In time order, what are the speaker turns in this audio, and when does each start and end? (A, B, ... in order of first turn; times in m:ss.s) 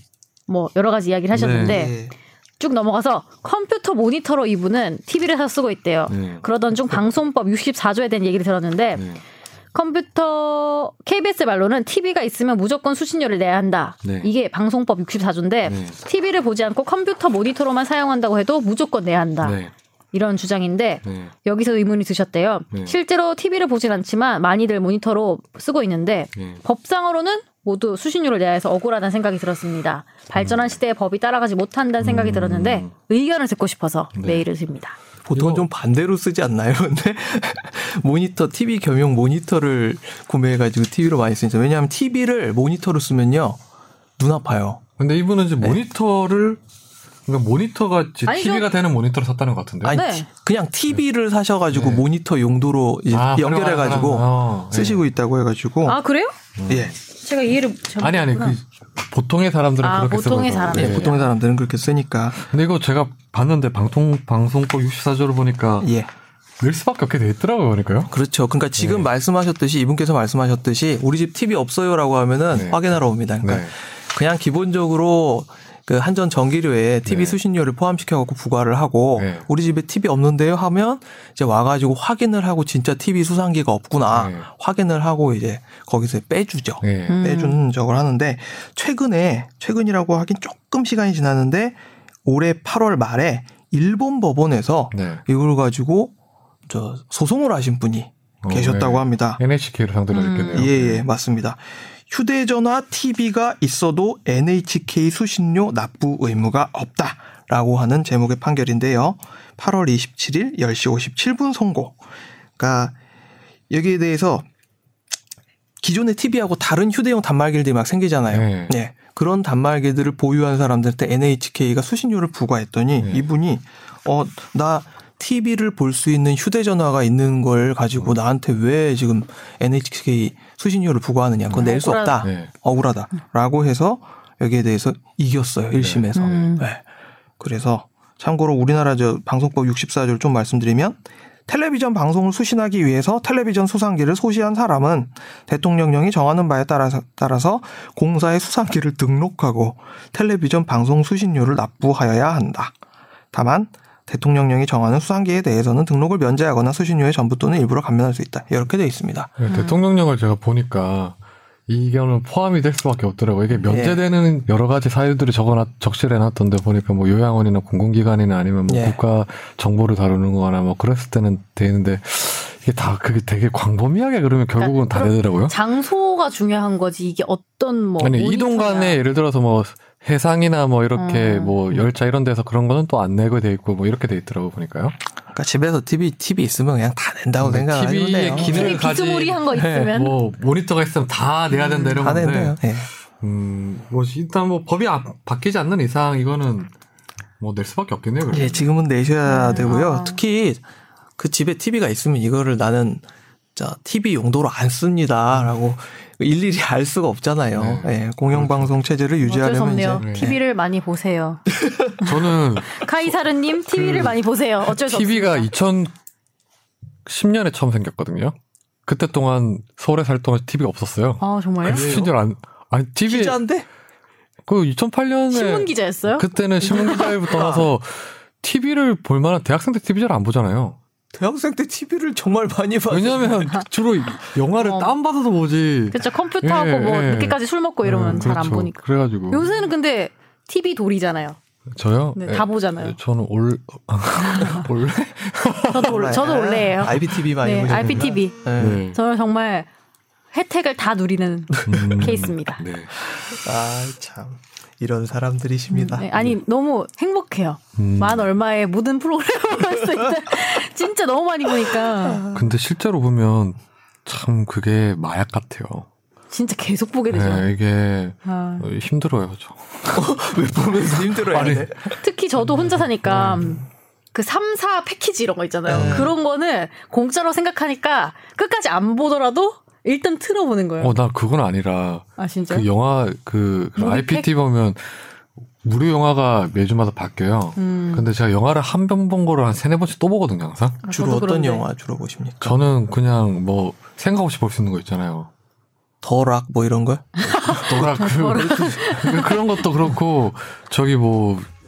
0:00.5-0:02.0 A
0:01.3-0:01.8 B
0:01.6-0:02.1 C
0:02.6-0:09.0 A
0:06.1-0:06.4 B
0:09.0-0:09.2 B
0:09.7-0:19.6 A
0:14.0-0:14.3 B
0:15.6-0:16.0 B
0:19.4-0:19.7 B
0:20.1-0:35.0 A
0:21.0-0:21.3 B
0:22.7-0:23.0 B
0:26.3-0:26.6 B
0:30.3-0:30.7 B
0:32.0-0:32.9 B
0:34.1-0:34.4 B
0:35.2-0:43.6 C
0:35.3-0:35.6 B
0:44.2-0:44.8 C
0:45.0-0:46.6 B
0:47.2-0:50.0 B
0:48.2-0:48.7 A
0:49.8-0:56.0 C
0:49.9-0:50.3 A
0:51.7-0:52.0 B
0:53.1-0:55.1 B
0:55.8-0:56.3 A
0:56.6-0:57.0 B
0:56.7-0:56.9 C
0:57.1-0:58.6 A
0:58.0-1:01.2 B
0:59.8-1:01.3 A
1:00.7-1:02.4 C
1:02.4-1:05.9 B
1:05.8-1:06.1 C
1:06.6-1:08.1 B
1:08.1-1:36.1 C
1:08.8-1:09.1 B
1:12.5-1:13.8 B
1:17.0-1:17.4 B
1:19.1-1:19.5 B
1:24.1-1:24.5 B
1:26.8-1:27.2 B
1:27.1-1:27.6 A
1:34.9-1:35.2 B
1:36.7-1:39.4 C
1:38.4-1:41.0 B
1:40.1-1:40.7 A
1:40.5-1:52.0 C
1:52.6-1:53.0 C
1:53.7-1:54.5 C
1:55.8-2:16.8 C
1:58.3-1:58.8 B
2:03.0-2:03.2 B
2:11.6-2:12.3 A
2:12.2-2:12.5 B
2:15.7-2:16.5 B
2:16.1-2:16.6 A
2:17.4-2:32.7 C
2:33.3-2:39.3 C
2:39.4-2:55.6 B
2:39.4-2:39.8 A
2:43.7-2:44.0 C
2:48.7-2:49.0 C
2:54.6-2:59.0 A
2:58.0-3:05.0 B
3:01.0-3:01.6 A
3:05.3-3:08.8 C
3:07.4-3:12.6 B
3:08.3-3:10.2 A
3:09.5-3:09.9 C
3:11.5-3:12.2 A
3:12.0-3:12.9 C
3:13.2-3:16.7 B
3:17.4-3:18.7 B
3:18.3-3:20.6 C
3:19.2-3:20.2 A
3:21.2-3:23.0 C
3:23.6-3:30.4 C
3:27.5-3:28.7 B
3:29.2-3:31.4 A
3:30.0-3:30.3 B
3:31.6-3:32.0 C
3:32.1-3:35.9 B
3:32.7-3:35.5 A
3:37.0-3:43.4 B
3:41.2-3:41.9 A
3:41.6-3:42.1 C
3:43.1-3:43.7 C
3:44.4-3:50.8 B
3:45.3-3:47.2 A
3:46.7-3:47.7 C
3:51.1-3:53.5 C
3:52.9-3:59.5 B
3:54.5-3:54.9 A
3:55.9-4:01.4 A
4:01.7-4:05.9 B
4:02.2-4:03.0 A
4:04.2-4:04.6 A
4:05.7-4:08.4 A
4:05.8-4:08.8 C
4:07.7-4:08.0 B
4:08.6-4:09.0 B
4:08.9-4:09.7 A
4:10.3-4:12.6 A
4:11.6-4:12.1 C
4:11.7-4:13.0 B
4:13.1-4:16.1 C
4:15.7-4:22.3 A
4:17.8-4:18.3 B
4:22.3-4:25.9 B
4:26.3-4:27.5 A
4:27.1-4:30.1 B
4:28.2-4:28.6 A
4:29.9-4:32.0 C
4:31.2-4:31.7 B
4:32.0-4:40.9 A
4:35.6-4:36.1 C
4:40.8-4:50.8 B
4:42.2-4:42.6 A
4:43.8-4:44.3 A
4:47.6-4:48.0 A
4:50.8-4:51.6 A
4:50.9-4:52.6 C
4:52.4-4:55.3 B
4:56.0-4:57.9 C
4:57.2-4:59.4 A
4:57.7-5:01.5 B